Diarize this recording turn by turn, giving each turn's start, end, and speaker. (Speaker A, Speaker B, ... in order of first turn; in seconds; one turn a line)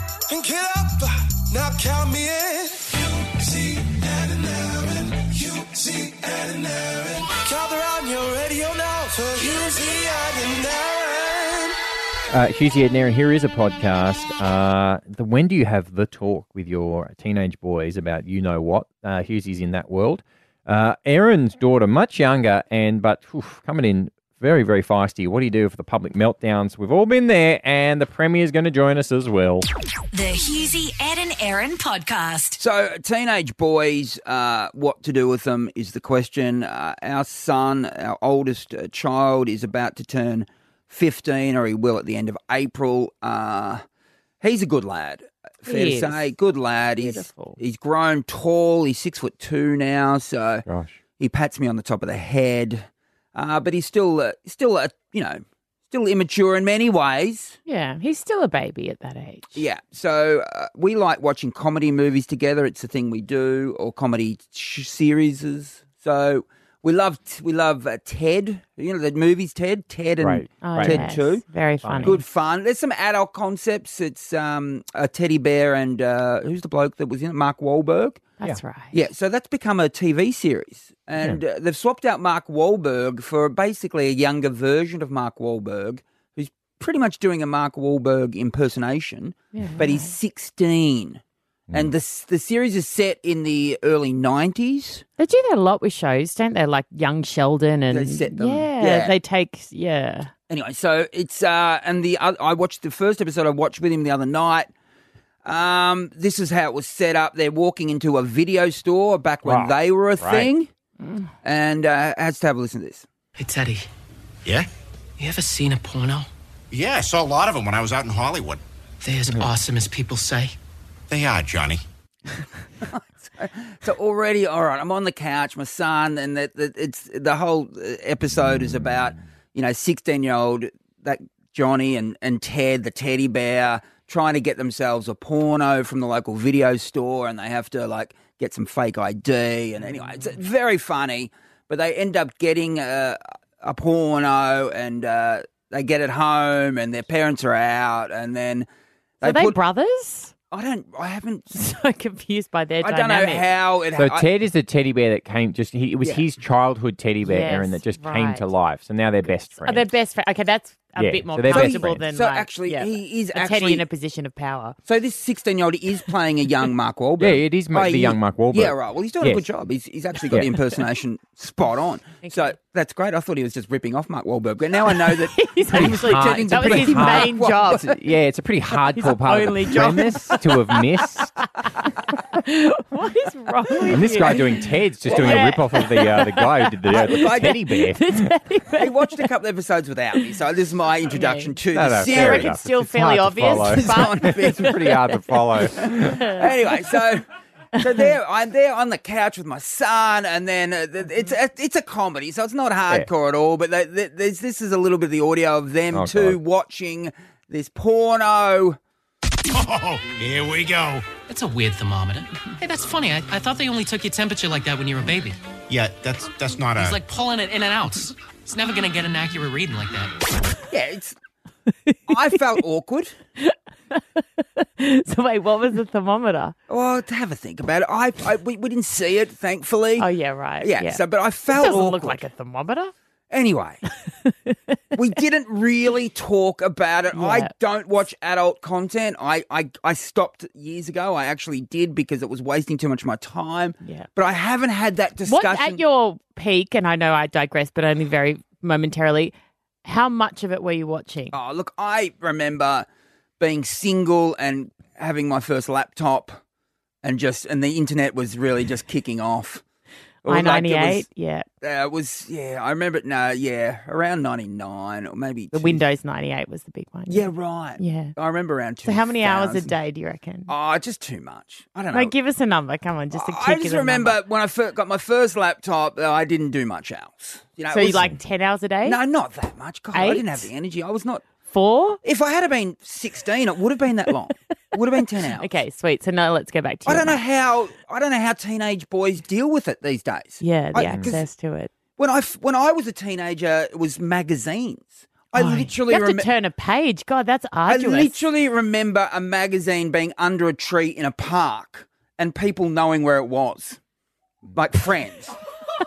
Speaker A: 0.3-11.8
Speaker B: 12.3-29.6
Speaker C: 30.1-32.6
Speaker D: 32.6-43.8
Speaker D: 44.4-50.6
Speaker E: 45.6-46.3
Speaker E: 47.0-47.6
Speaker B: 50.6-51.0
Speaker D: 51.2-57.6
Speaker E: 57.6-59.6
Speaker D: 59.5-71.4
Speaker B: 70.2-71.0
Speaker E: 70.6-72.2
Speaker B: 71.8-72.2
Speaker D: 72.0-78.3
Speaker E: 78.4-78.9
Speaker D: 78.9-95.0
Speaker E: 89.5-90.1
Speaker E: 95.2-100.3
Speaker D: 97.9-99.1
Speaker D: 100.5-104.7
Speaker D: 105.4-110.7
Speaker B: 109.4-110.5
Speaker E: 111.0-111.3
Speaker D: 111.4-113.1
Speaker F: 113.4-113.9
Speaker F: 115.2-116.3
Speaker G: 116.7-118.6
Speaker F: 119.0-120.5
Speaker G: 121.1-121.8
Speaker D: 122.8-148.7
Speaker D: 149.2-149.6
Speaker E: 149.2-150.3
Speaker D: 150.5-151.5
Speaker E: 151.5-153.5
Speaker D: 152.8-154.3
Speaker B: 154.0-159.9
Speaker E: 157.2-158.5
Speaker E: 159.6-164.8
Speaker B: 161.0-162.0
Speaker D: 161.5-163.8
Speaker D: 164.8-177.8
Speaker B: 167.2-169.4
Speaker B: 170.3-170.6
Speaker E: 172.2-172.5
Speaker E: 174.8-177.8
Speaker B: 175.7-181.3
Speaker E: 178.9-180.8
Speaker E: 181.8-189.3
Speaker B: 183.8-188.3
Speaker D: 185.1-185.6
Speaker D: 186.9-187.6
Speaker D: 188.8-192.5
Speaker E: 191.1-195.2
Speaker B: 191.7-196.2
Speaker D: 193.5-194.7
Speaker D: 195.7-208.8
Speaker E: 196.0-196.4
Speaker E: 197.8-198.1
Speaker B: 205.9-206.4
Speaker G: 209.5-211.1
Speaker F: 211.3-215.4
Speaker G: 215.7-217.0
Speaker F: 216.8-220.1
Speaker D: 220.7-221.2
Speaker D: 222.1-223.1
Speaker E: 223.4-226.6
Speaker D: 226.7-230.1
Speaker E: 230.0-232.9
Speaker D: 230.6-232.2
Speaker D: 233.3-233.8
Speaker E: 234.2-234.8
Speaker D: 234.9-245.8
Speaker E: 237.1-237.5
Speaker E: 243.8-244.1
Speaker E: 245.2-249.3
Speaker E: 249.8-251.3
Speaker D: 251.3-252.9
Speaker D: 253.4-256.4
Speaker D: 257.0-259.6
Speaker D: 260.2-261.1
Speaker E: 260.3-261.4
Speaker D: 261.6-265.8
Speaker E: 265.5-268.1
Speaker D: 267.1-269.7
Speaker E: 268.8-270.5
Speaker D: 270.5-272.1
Speaker E: 271.9-274.2
Speaker D: 273.1-278.1
Speaker E: 277.7-279.0
Speaker D: 278.8-281.3
Speaker E: 279.9-280.5
Speaker E: 281.5-282.0
Speaker D: 282.0-285.5
Speaker E: 285.4-287.2
Speaker D: 286.9-291.3
Speaker E: 290.4-291.7
Speaker B: 290.9-291.2
Speaker D: 292.0-296.3
Speaker E: 295.3-298.1
Speaker D: 297.7-303.8
Speaker D: 304.5-305.4